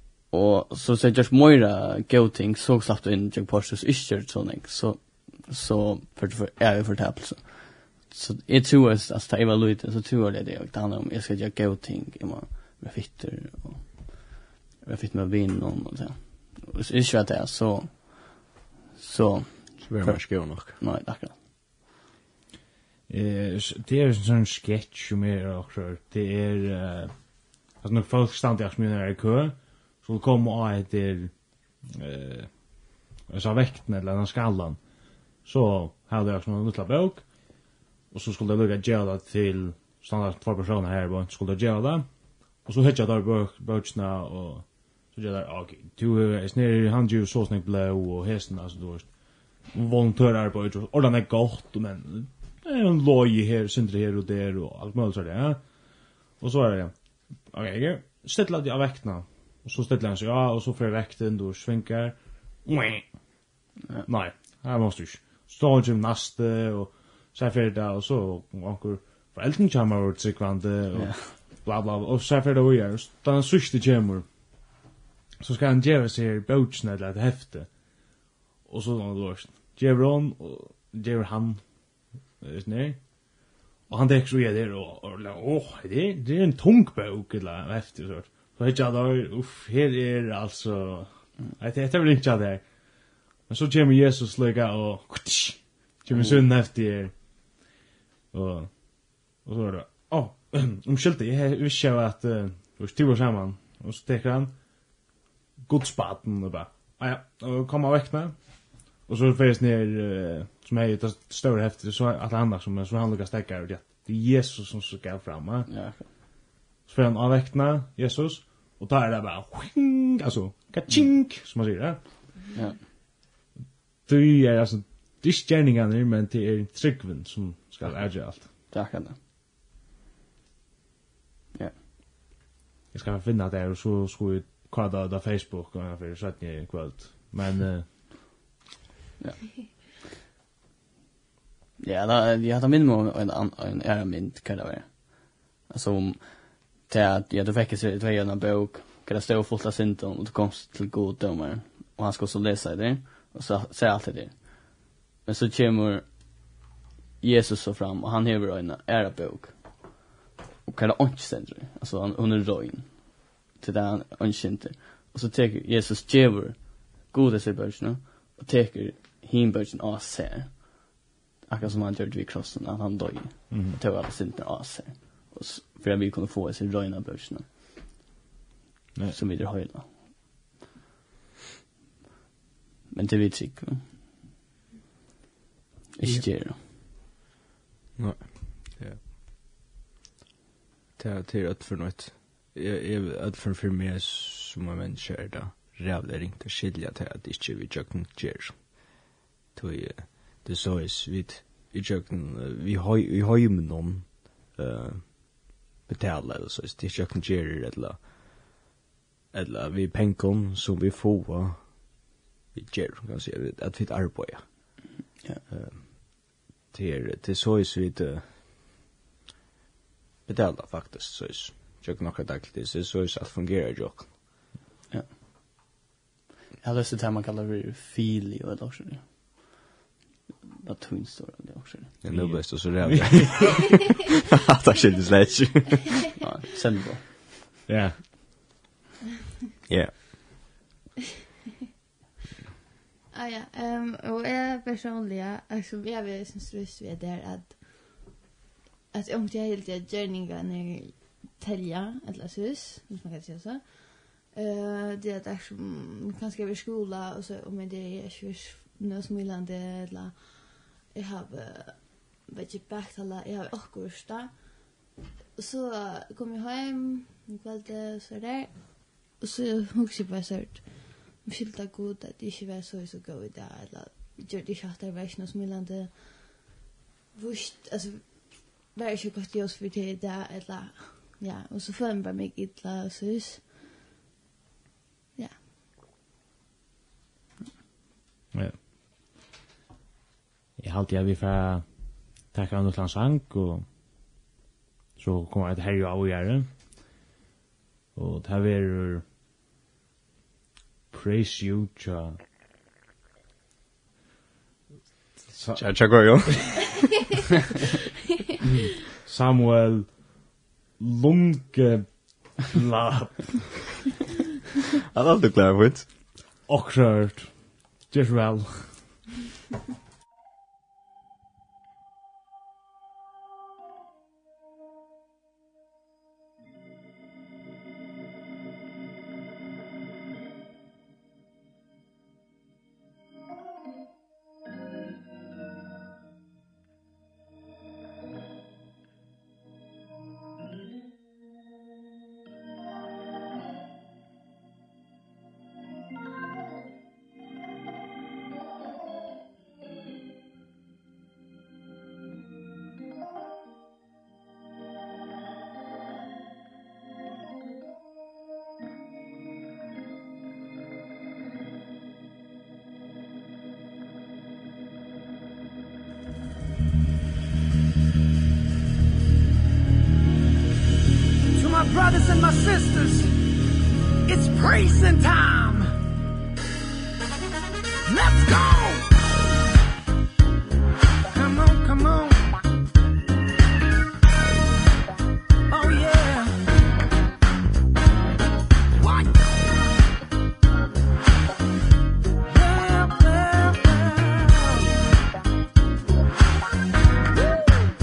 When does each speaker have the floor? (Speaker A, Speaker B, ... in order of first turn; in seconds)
Speaker A: 0.3-21.4, 70.9-71.3, 115.7-116.1, 122.5-122.8, 128.7-129.2, 141.8-156.2, 157.2-160.0, 160.7-170.9, 171.5-177.8, 179.1-179.9, 182.9-183.9, 185.9-186.6, 226.6-229.4, 230.6-232.0, 236.2-237.3
Speaker B: 19.8-20.8, 188.0-189.0, 191.0-199.0, 199.5-208.0, 209.3-211.9, 212.5-214.4, 215.5-218.3, 220.3-224.1, 232.0-235.9, 239.7-240.2, 305.5-306.9, 314.9-315.9
Speaker C: 23.1-27.1, 27.8-31.3, 31.9-32.5, 33.3-34.8, 35.4-37.3, 38.1-42.1, 42.6-49.1, 49.7-55.6, 56.4-56.9, 57.5-63.0, 64.0-74.2, 75.4-77.7, 78.7-81.6, 82.4-83.0, 83.9-92.6, 93.5-97.1, 98.3-98.7, 99.4-104.5, 105.7-108.4, 109.0-115.7, 116.9-122.3, 124.0-128.5, 132.9-138.1, 173.5-173.8, 232.1-233.8, 237.7-238.4, 290.6-291.6, 292.3-293.6, 295.0-296.5, 297.9-299.0, 300.9-302.2, 305.3-306.5, 309.0-309.9, 310.8-313.7, 316.5-319.0
Speaker D: 243.1-248.1, 248.9-264.4, 265.4-276.6, 277.1-283.5, 285.1-285.4
Speaker E: 371.3-373.1, 374.1-375.8, 377.9-379.0, 381.1-382.3, 385.5-386.4, 388.7-389.3, 392.3-394.7